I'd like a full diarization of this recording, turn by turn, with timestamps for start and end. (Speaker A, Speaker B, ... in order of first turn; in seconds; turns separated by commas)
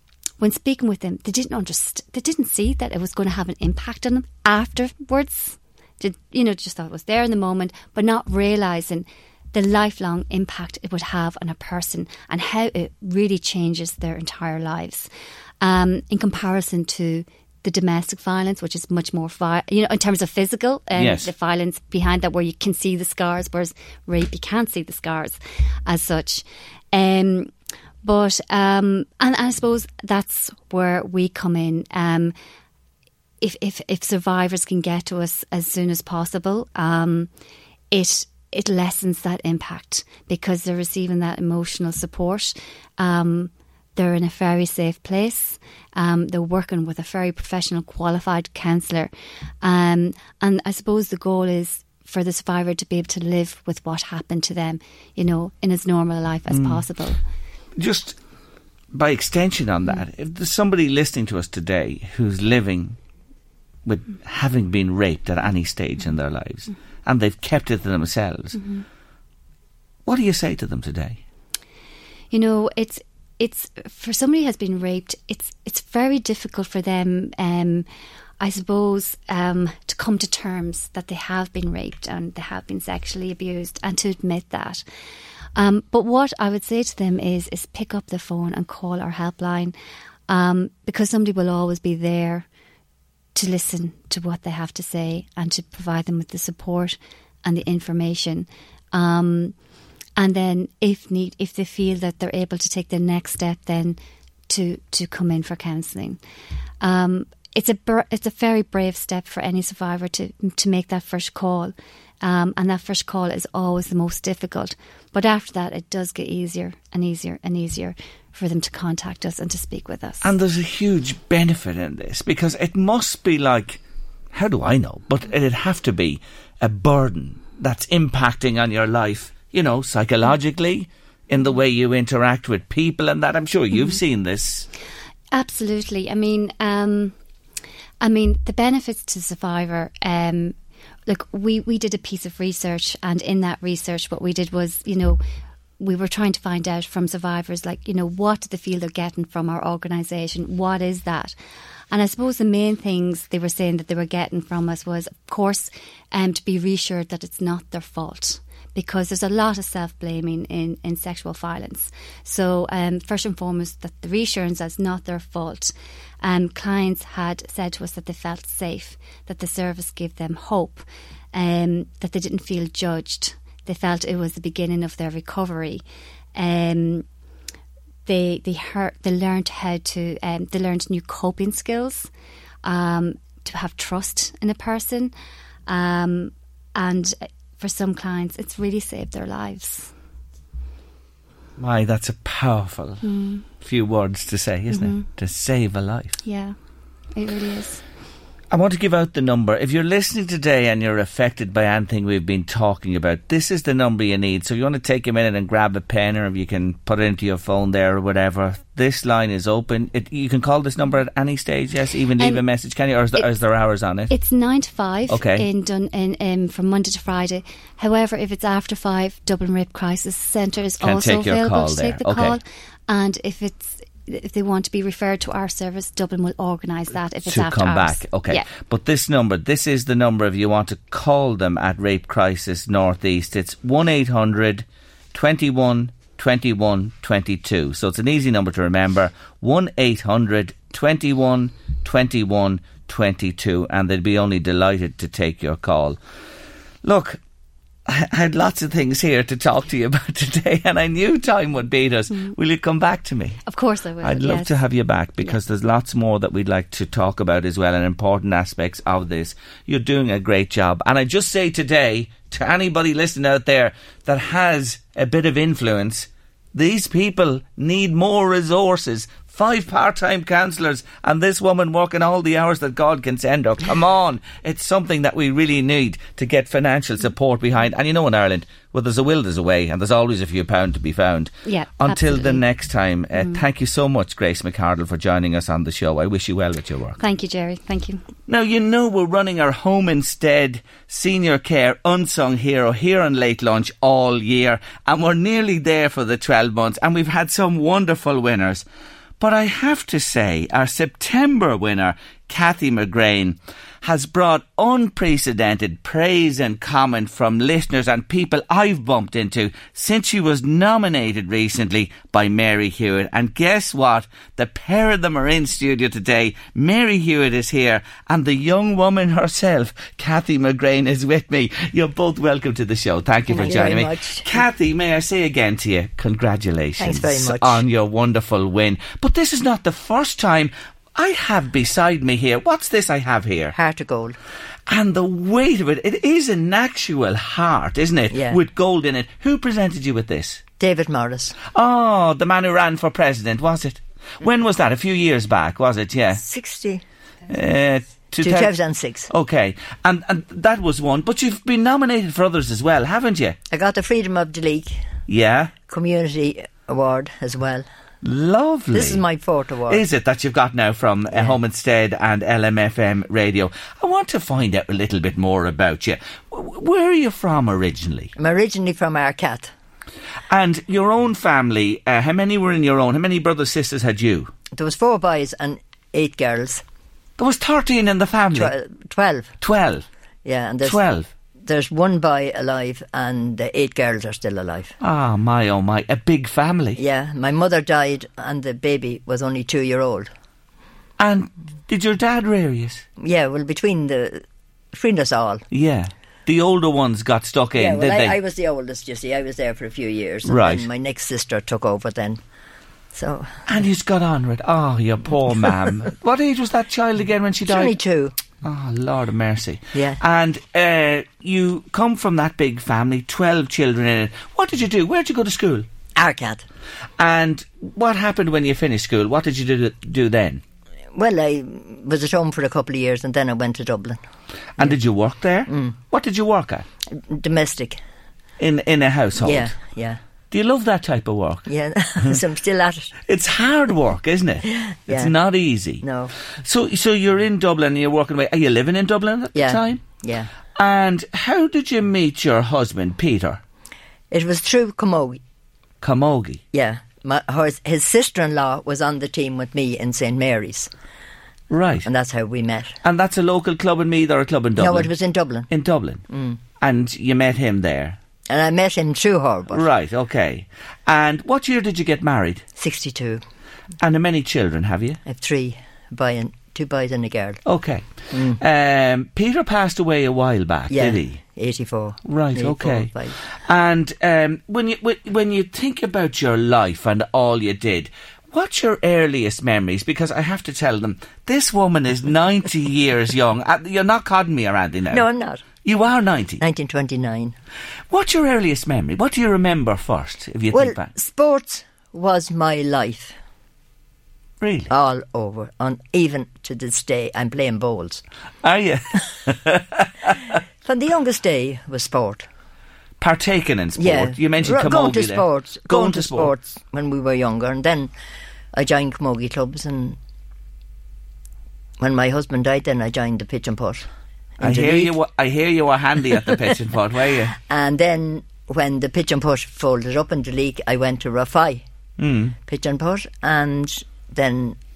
Speaker A: 0.4-15.1, Speaker A: 15.6-27.5, Speaker B: 20.9-21.3, Speaker A: 28.0-32.3, Speaker A: 33.4-37.3, Speaker A: 37.9-49.1, Speaker A: 49.6-57.2, Speaker B: 56.5-56.9, Speaker B: 57.8-58.2, Speaker B: 58.9-63.0, Speaker B: 63.9-68.6, Speaker A: 68.5-68.8, Speaker B: 70.1-71.2, Speaker A: 72.3-77.9, Speaker A: 78.4-84.8, Speaker A: 85.5-89.8, Speaker A: 90.3-92.5, Speaker A: 93.3-99.5, Speaker A: 100.2-104.0, Speaker A: 104.5-106.2, Speaker A: 106.8-120.3, Speaker B: 120.2-123.8, Speaker B: 124.3-134.7, Speaker A: 133.7-134.0, Speaker A: 135.3-137.2, Speaker A: 138.0-140.6, Speaker A: 141.1-145.2, Speaker A: 145.8-151.4, Speaker A: 151.9-175.8, Speaker A: 176.3-177.1, Speaker A: 178.1-182.1, Speaker A: 182.6-185.1, Speaker A: 185.7-189.9, Speaker B: 191.6-193.1, Speaker A: 193.0-193.4, Speaker B: 193.6-196.2, Speaker A: 194.7-195.1, Speaker A: 196.2-196.6, Speaker A: 197.2-197.8, Speaker B: 198.5-214.1, Speaker A: 212.2-212.4, Speaker A: 214.1-228.5, Speaker B: 215.1-215.5, Speaker B: 220.8-222.4, Speaker B: 227.2-246.0, Speaker B: 246.8-247.2, Speaker B: 247.9-253.4, Speaker A: 253.5-254.6, Speaker B: 254.0-287.0, Speaker A: 281.5-282.4, Speaker A: 283.1-283.4, Speaker A: 287.0-288.0, Speaker B: 288.3-298.6, Speaker B: 299.2-333.6, Speaker C: 323.3-324.3, Speaker C: 326.8-327.6, Speaker C: 333.5-334.2, Speaker B: 334.7-340.5, Speaker C: 338.1-338.4, Speaker C: 340.6-341.4, Speaker B: 341.5-346.2, Speaker C: 346.1-346.8, Speaker B: 347.3-348.6, Speaker C: 348.2-349.1, Speaker B: 349.1-353.4, Speaker C: 353.5-354.9, Speaker B: 355.1-355.6, Speaker C: 355.6-357.7, Speaker B: 358.0-359.1, Speaker C: 358.7-359.8, Speaker B: 359.7-368.1, Speaker C: 361.1-361.4, Speaker C: 368.2-369.5, Speaker B: 370.3-374.3, Speaker C: 374.5-376.6, Speaker B: 377.2-378.5, Speaker C: 378.3-379.3, Speaker B: 379.4-379.9, Speaker C: 380.2-380.8, Speaker B: 380.6-381.1, Speaker C: 381.4-384.7, Speaker B: 384.8-386.8, Speaker C: 386.8-390.1, Speaker B: 391.0-392.9, Speaker C: 393.0-395.4, Speaker B: 395.5-398.2, Speaker C: 397.5-402.2, Speaker B: 400.2-400.7, Speaker C: 402.9-403.4, Speaker B: 403.5-407.8, Speaker C: 407.4-408.1, Speaker B: 408.4-415.7, Speaker C: 409.7-410.0, Speaker C: 416.0-416.5, Speaker B: 417.0-420.4, Speaker C: 420.9-424.0, Speaker B: 424.6-426.6, Speaker C: 425.5-425.8, Speaker C: 426.9-427.8, Speaker B: 428.4-429.6, Speaker C: 429.2-430.0, Speaker B: 430.3-431.5, Speaker C: 431.5-432.9, Speaker B: 433.1-435.9, Speaker C: 434.5-435.1, Speaker C: 435.8-436.1, Speaker B: 436.4-439.8, Speaker C: 439.3-440.3, Speaker B: 440.6-443.4, Speaker C: 444.1-445.2, Speaker B: 445.8-446.4, Speaker C: 446.5-450.7, Speaker B: 451.5-451.9, Speaker C: 451.8-452.7, Speaker B: 452.8-454.9, Speaker C: 454.6-455.5, Speaker B: 455.5-456.0, Speaker C: 456.1-456.4, Speaker B: 456.6-458.0, Speaker C: 458.3-459.7, Speaker B: 459.5-462.4, Speaker C: 462.6-463.2, Speaker B: 463.8-465.0, Speaker C: 465.1-467.4, Speaker B: 467.4-471.2, Speaker C: 468.1-468.4, Speaker C: 470.7-473.2, Speaker B: 472.1-485.1, Speaker C: 484.9-485.4, Speaker B: 485.6-486.4, Speaker C: 486.4-487.4, Speaker B: 487.9-490.9, Speaker C: 490.5-493.1, Speaker B: 494.4-494.7, Speaker C: 494.7-498.0, Speaker B: 498.4-500.2, Speaker C: 500.7-502.3, Speaker B: 503.0-506.3, Speaker C: 503.8-507.9, Speaker C: 508.5-510.0, Speaker C: 511.8-513.9, Speaker C: 514.4-515.0, Speaker B: 514.4-517.4, Speaker C: 517.5-521.6, Speaker B: 522.0-522.4, Speaker C: 522.5-524.6